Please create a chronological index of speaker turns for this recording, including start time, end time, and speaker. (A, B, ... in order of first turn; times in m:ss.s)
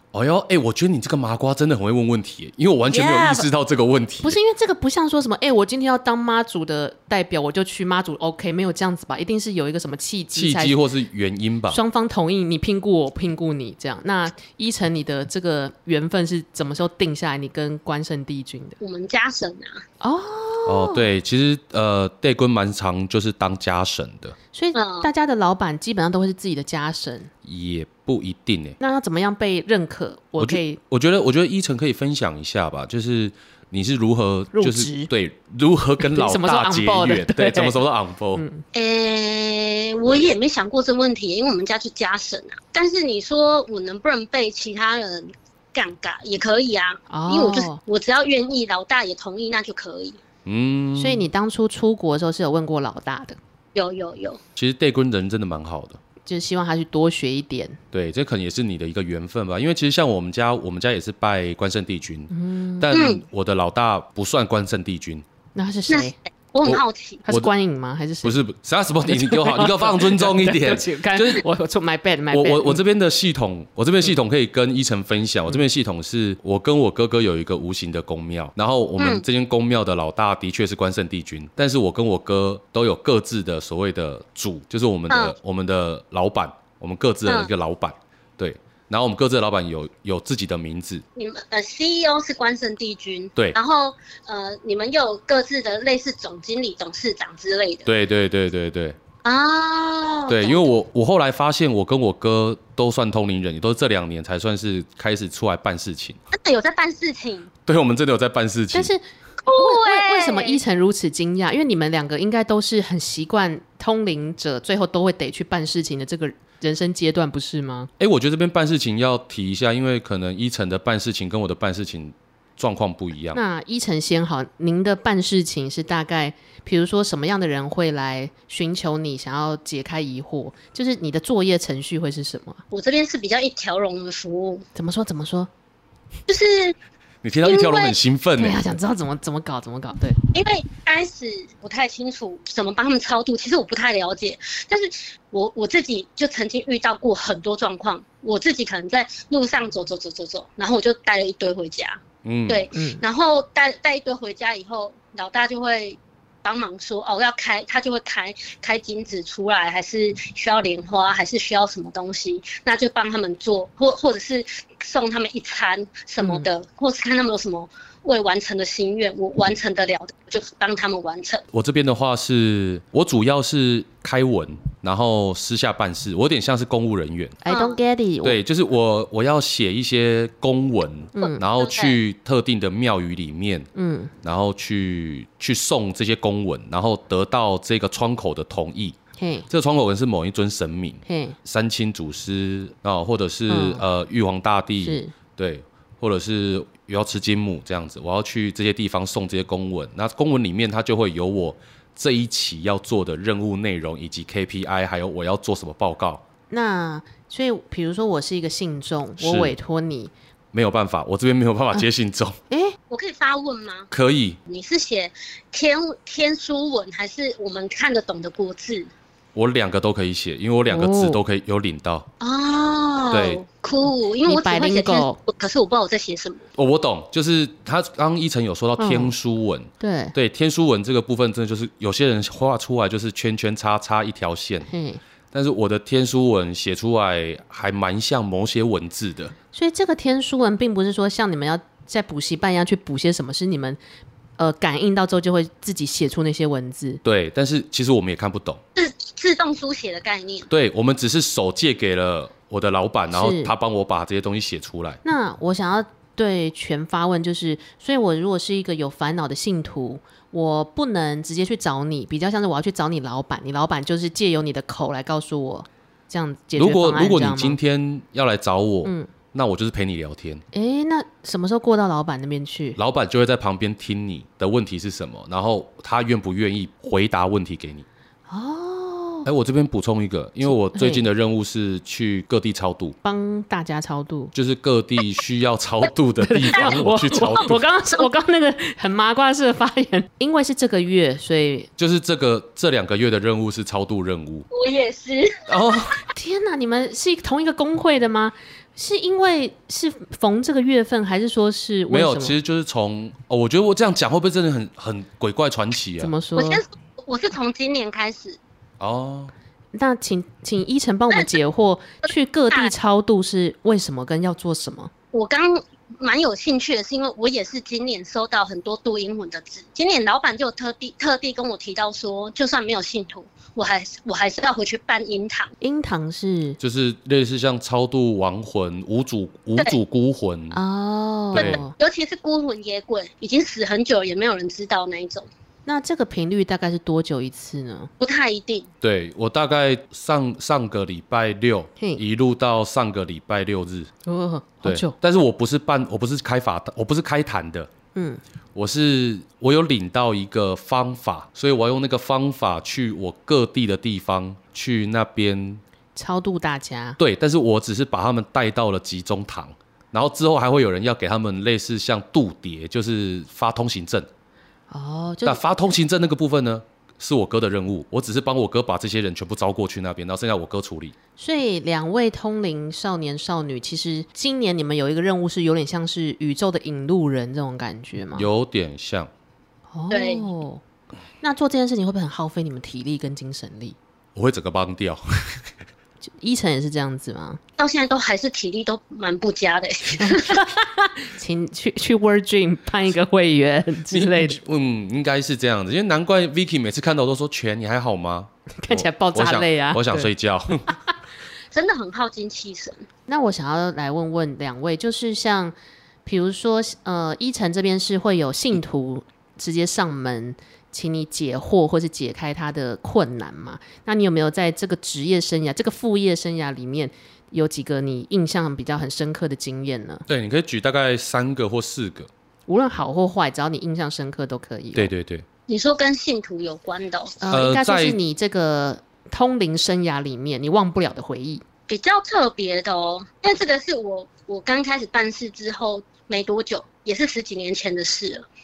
0:00.1-0:04.4 A
0:02.9-0:03.5 B
0:04.2-0:10.8 B
0:10.4-0:11.8 A
0:11.7-0:18.8 B
0:18.8-0:19.8 C
0:20.0-0:21.1 B
0:20.7-0:24.4 A
0:24.5-0:27.3 B
0:24.8-0:25.1 C
0:27.4-0:28.8 A
0:28.8-0:30.8 B
0:30.4-0:38.4 A
0:34.5-0:35.1 B
0:36.0-0:37.8 B
0:38.4-0:38.6 B
0:38.7-0:50.2 C
0:47.1-0:47.8 B
0:50.5-0:51.3 A
0:51.0-0:53.4 B
0:53.8-0:54.4 C
0:54.6-0:56.0 A
0:56.3-0:57.8 B
0:57.9-1:05.2 A
1:02.3-1:02.9 B
1:02.9-1:03.2 C
1:05.6-1:06.2 B
1:05.9-1:07.2 C
1:06.6-1:07.5 A
1:07.3-1:08.4 B
1:08.2-1:11.4 A
1:09.0-1:12.8 B
1:12.3-1:31.0 A
1:19.0-1:19.2 C
1:25.1-1:25.4 C
1:31.2-1:37.9 C
1:37.9-1:39.0 A
1:39.2-1:40.7 C
1:40.3-1:46.2 A
1:46.3-1:47.5 C
1:47.7-1:48.9 A
1:48.7-1:57.9 B
1:49.4-1:50.6 C
1:58.0-2:03.4 A
2:03.3-2:12.6 B
2:12.7-2:14.7 C
2:14.8-2:15.5 B
2:16.3-2:16.8 C
2:17.2-2:18.6 A
2:17.4-2:18.0 C
2:18.4-2:20.2 B
2:20.3-2:51.4 C
2:32.2-2:32.7 A
2:32.7-2:33.0 B
2:46.2-2:46.5 B
2:51.5-2:57.4 A
2:57.4-2:58.4 B
2:57.5-2:57.8 C
2:58.2-3:03.7 A
3:01.2-3:01.4 B
3:01.2-3:02.0 C
3:03.8-3:04.1 B
3:04.2-3:09.0 A
3:09.2-3:09.5 B
3:09.5-3:26.2 A
3:11.1-3:11.4 B
3:13.5-3:13.8 B
3:14.8-3:15.1 B
3:26.5-3:30.1 B
3:29.2-3:29.6 A
3:30.5-3:32.4 A
3:32.5-3:32.8 B
3:32.9-3:33.9 C
3:33.9-3:34.4 A
3:34.5-3:38.9 C
3:39.4-3:42.1 A
3:40.7-3:41.2 B
3:42.2-3:46.5 C
3:43.1-3:43.4 A
3:44.3-3:45.2 B
3:46.6-3:54.7 A
3:48.8-3:49.1 B
3:49.8-3:50.2 B
3:54.7-3:55.0 B
3:55.3-3:59.4 A
3:59.5-4:03.8 B
4:04.4-4:07.0 B
4:07.0-4:08.6 A
4:08.8-4:10.5 C
4:10.5-4:15.0 A
4:13.1-4:13.5 B
4:15.0-4:27.6 B
4:26.6-4:30.4 A
4:28.8-4:29.1 B
4:30.5-4:32.8 B
4:32.8-4:37.9 A
4:38.3-4:39.3 B
4:39.3-4:43.0 A
4:40.5-4:41.1 B
4:43.0-4:44.3 B
4:44.3-4:47.6 A
4:46.2-4:51.7 B
4:51.8-4:54.5 A
4:54.5-4:55.5 C
4:55.5-4:56.0 A
4:56.1-5:02.4 B
5:01.9-5:06.1 A
5:06.0-5:06.6 B
5:06.4-5:08.4 C
5:08.8-5:09.3 A
5:09.7-5:14.9 B
5:15.1-5:25.5 C
5:25.6-5:26.6 B
5:26.6-5:30.6 A
5:30.5-5:31.7 B
5:31.3-5:35.3 C
5:31.4-5:31.6 A
5:35.7-5:37.9 B
5:38.0-5:38.7 C
5:38.8-5:43.9 A
5:44.1-5:45.0 B
5:44.6-5:47.7 A
5:48.0-5:48.2 B
5:48.6-5:55.6 A
5:56.0-5:57.0 B
5:57.0-6:04.1 A
6:04.7-6:05.4 B
6:05.2-6:11.0 A
6:11.2-6:18.3 B
6:18.2-6:19.1 A
6:19.7-6:20.6 B
6:19.9-6:20.3 C
6:21.2-6:23.8 B
6:24.2-6:25.5 A
6:26.0-6:27.4 B
6:27.6-6:30.4 C
6:30.0-6:34.4 B
6:33.9-6:40.7 A
6:38.6-6:40.1 B
6:41.5-6:42.9 C
6:43.1-6:45.5 B
6:46.1-7:00.1 B
7:00.1-7:02.1 A
7:02.5-7:04.9 B
7:04.8-7:05.3 A
7:05.5-7:07.2 C
7:07.2-7:11.4 B
7:07.3-7:08.0 A
7:11.7-7:18.3 C